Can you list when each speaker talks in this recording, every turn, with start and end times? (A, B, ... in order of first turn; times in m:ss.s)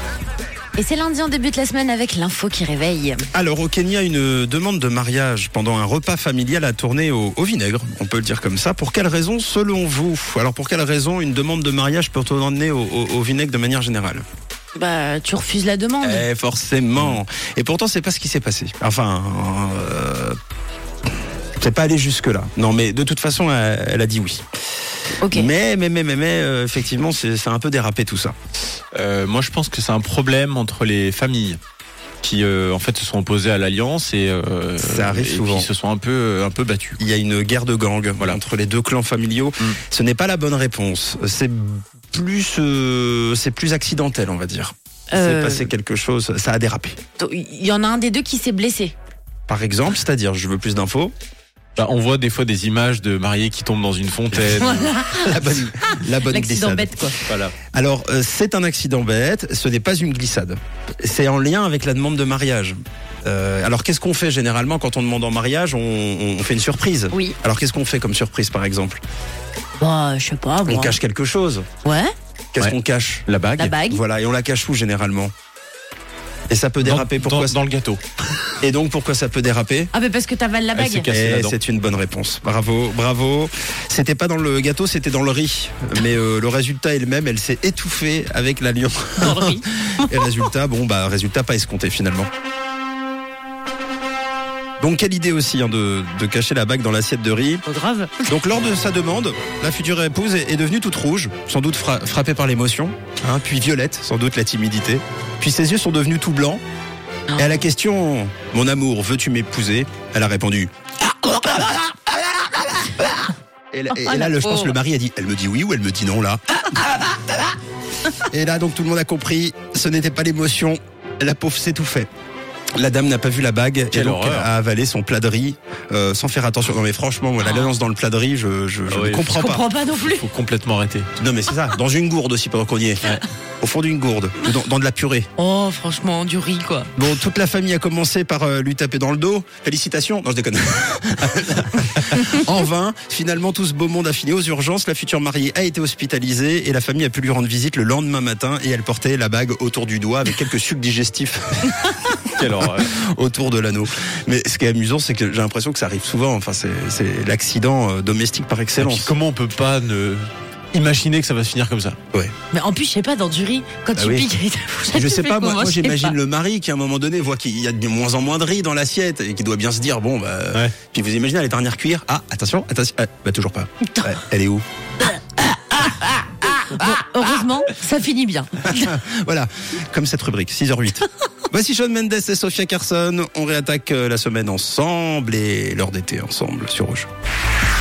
0:00.8-0:03.2 A
0:03.3-0:14.2 B
0:14.8-0:16.2 A
0:16.0-0:20.4 B
0:21.6-0:24.4 B
0:25.2-0:25.5 A
0:25.3-0:28.4 B
0:28.9-0:31.6 C
0:32.2-0:37.0 C
0:34.8-0:35.7 B
0:37.0-0:47.0 B
0:45.1-0:45.7 A
0:47.2-0:48.9 A
0:49.5-0:51.1 B
0:51.8-0:54.9 C
0:54.4-0:57.2 A
0:55.2-0:57.1 B
0:57.3-0:57.6 C
0:57.7-1:09.0 B
1:09.8-1:11.0 A
1:10.7-1:11.7 B
1:11.8-1:12.1 A
1:12.5-1:15.3 B
1:13.3-1:13.8 C
1:13.6-1:14.0 A
1:16.5-1:17.6 B
1:16.8-1:18.0 C
1:18.6-1:19.9 B
1:19.9-1:21.1 A
1:20.8-1:21.6 C
1:21.1-1:32.3 B
1:29.2-1:29.6 A
1:34.8-1:37.6 B
1:37.6-1:38.3 A
1:38.3-1:46.6 B
1:47.4-1:50.7 B
1:51.2-1:53.2 B
1:53.7-1:57.4 B
1:53.9-1:54.7 A
1:58.2-2:02.1 B
2:02.8-2:09.6 B
2:03.9-2:04.5 C
2:07.4-2:07.7 A
2:08.9-2:09.4 C
2:09.3-2:10.3 A
2:10.2-2:11.1 C
2:11.2-2:13.1 B
2:13.6-2:15.3 B
2:15.4-2:16.9 A
2:17.0-2:39.1 B
2:32.3-2:32.9 C
2:38.8-2:42.0 C
2:42.5-2:46.2 A
2:44.0-2:44.3 B
2:44.9-2:54.6 B
2:55.8-2:56.1 B
2:56.6-2:59.0 A
2:56.6-2:57.3 B
2:58.6-3:07.1 B